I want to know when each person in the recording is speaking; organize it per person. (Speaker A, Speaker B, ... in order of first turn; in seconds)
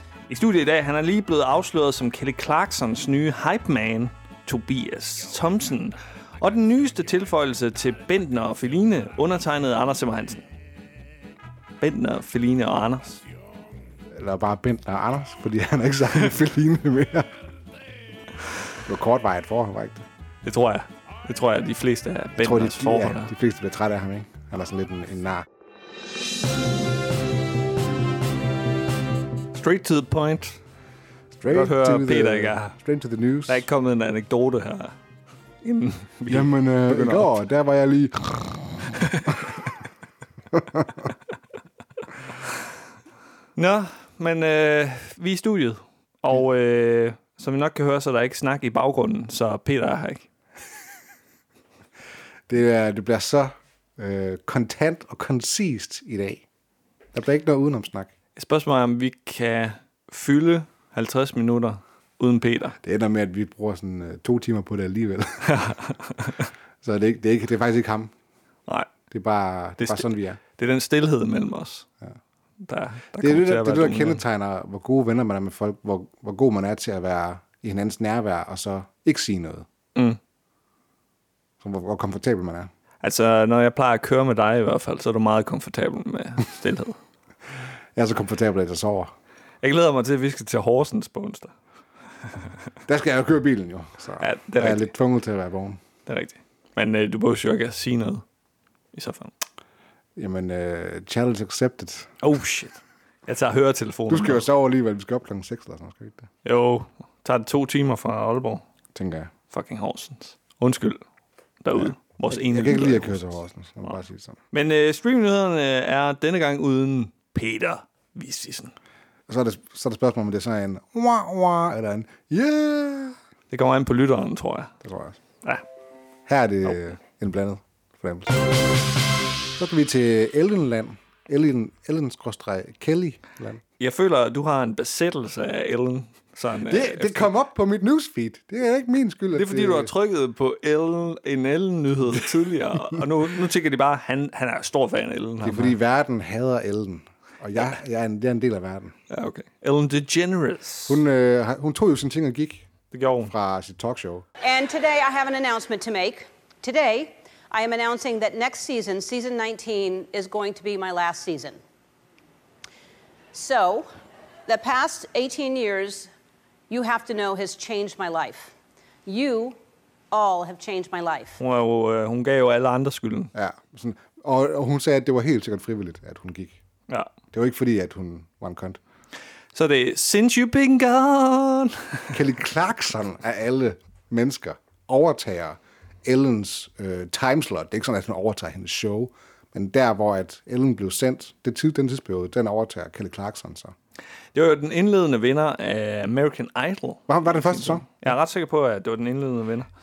Speaker A: 0.3-10.4, 11.8-13.2, 20.4-23.3, 29.5-30.6, 31.5-32.7, 33.5-35.0, 35.6-37.3, 39.0-39.4, 43.6-50.3, 58.4-62.8, 65.5-66.5, 69.8-71.9, 72.7-74.2, 83.0-87.0, 89.6-91.5, 94.2-94.9, 96.1-98.2, 98.9-99.3, 102.2-104.5, 106.4-108.7, 109.5-111.0, 111.6-113.2, 114.5-118.7, 123.5-124.7, 133.8-137.3, 139.3-145.8, 149.1-151.0, 152.9-153.3, 171.4-173.3, 179.5-182.2, 194.3-199.7
Speaker B: 14.1-17.3, 18.9-20.1, 22.4-25.4, 31.3-33.7, 36.3-39.7, 40.5-40.9, 52.5-56.4, 57.1-58.1, 62.8-65.8, 66.8-68.1, 69.1-70.4, 73.2-79.7, 81.6-82.7, 88.0-89.1, 92.9-95.8, 100.2-102.1, 104.1-106.3, 109.0-109.3, 111.7-114.4, 119.3-123.2, 124.8-125.2, 126.3-128.4, 129.6-133.6, 136.7-139.9, 145.4-148.9, 150.9-152.7, 153.3-154.2, 173.3-176.6, 177.3-178.8, 182.1-193.8, 197.1-197.9
Speaker C: 154.4-161.6, 163.3-163.9, 164.5-166.1, 166.7-168.5, 169.1-169.6, 170.1-171.4